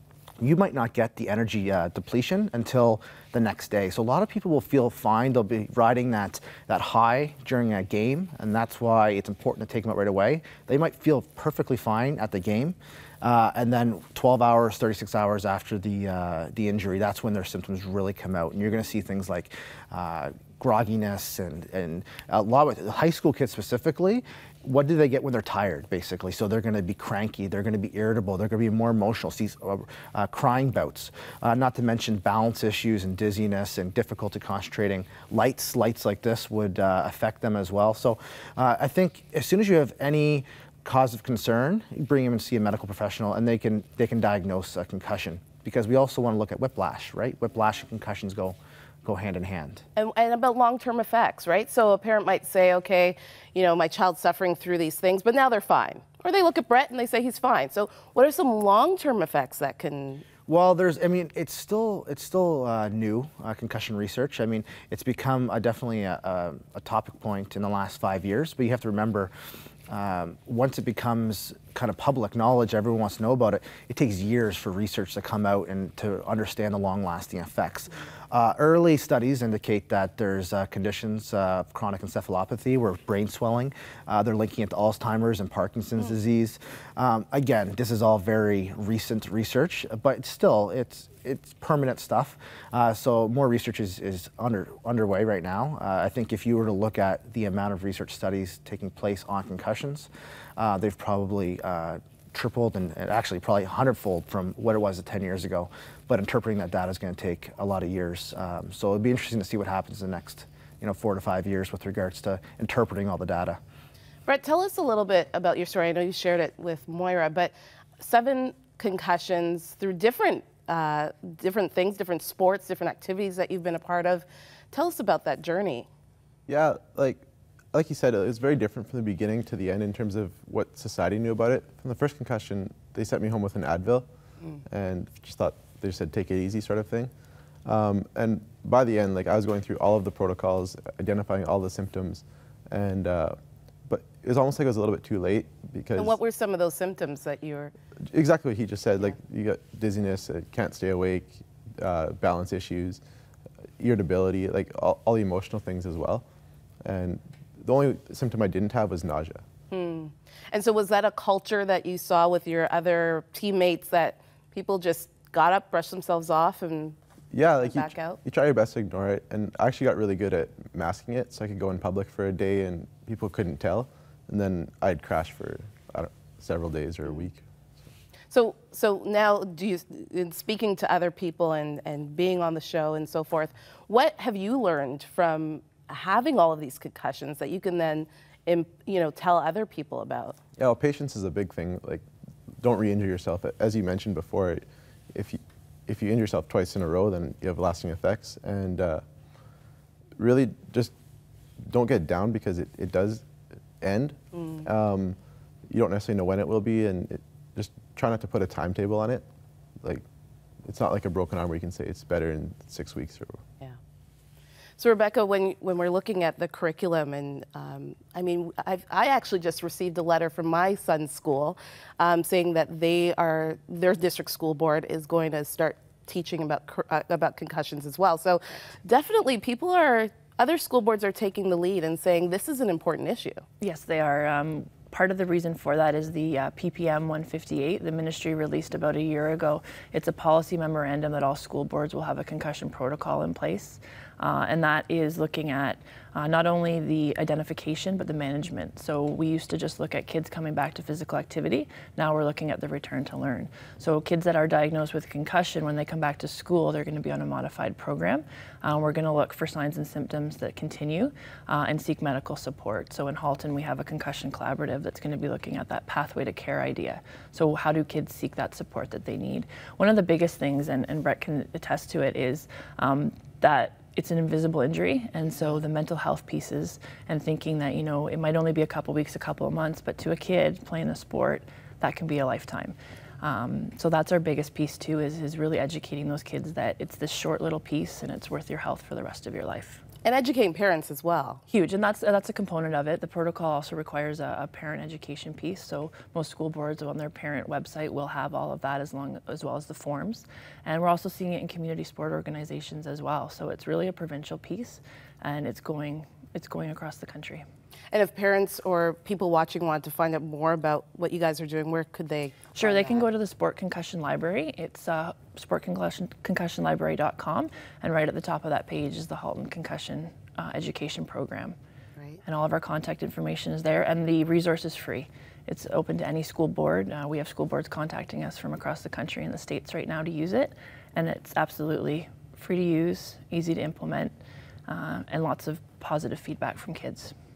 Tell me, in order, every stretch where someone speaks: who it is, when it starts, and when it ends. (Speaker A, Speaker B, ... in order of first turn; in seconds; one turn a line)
Speaker A: 0.4-49.8
Speaker B: 50.0-60.2
Speaker A: 60.5-69.3
Speaker A: 69.9-113.6
Speaker B: 114.2-125.9
Speaker C: 126.5-134.1
Speaker C: 134.7-137.1
Speaker C: 137.7-146.2
Speaker B: 146.0-147.7
Speaker C: 148.1-153.0
Speaker C: 153.8-156.2
Speaker C: 156.8-159.4
Speaker B: 159.7-167.0
Speaker C: 167.3-177.4
Speaker B: 167.6-168.2
Speaker B: 178.3-190.4
Speaker C: 190.6-192.0
Speaker C: 192.6-199.0
Speaker C: 200.2-200.9
Speaker C: 201.6-203.2
Speaker C: 203.8-205.2
Speaker B: 204.3-204.6
Speaker C: 205.7-209.2
Speaker C: 210.6-213.4
Speaker B: 214.8-233.4
Speaker D: 233.6-289.8
Speaker B: 290.0-291.4
Speaker D: 291.5-307.4
Speaker B: 307.9-313.0
Speaker D: 312.5-321.6
Speaker B: 322.0-322.2
Speaker D: 322.2-334.1
Speaker D: 334.7-337.1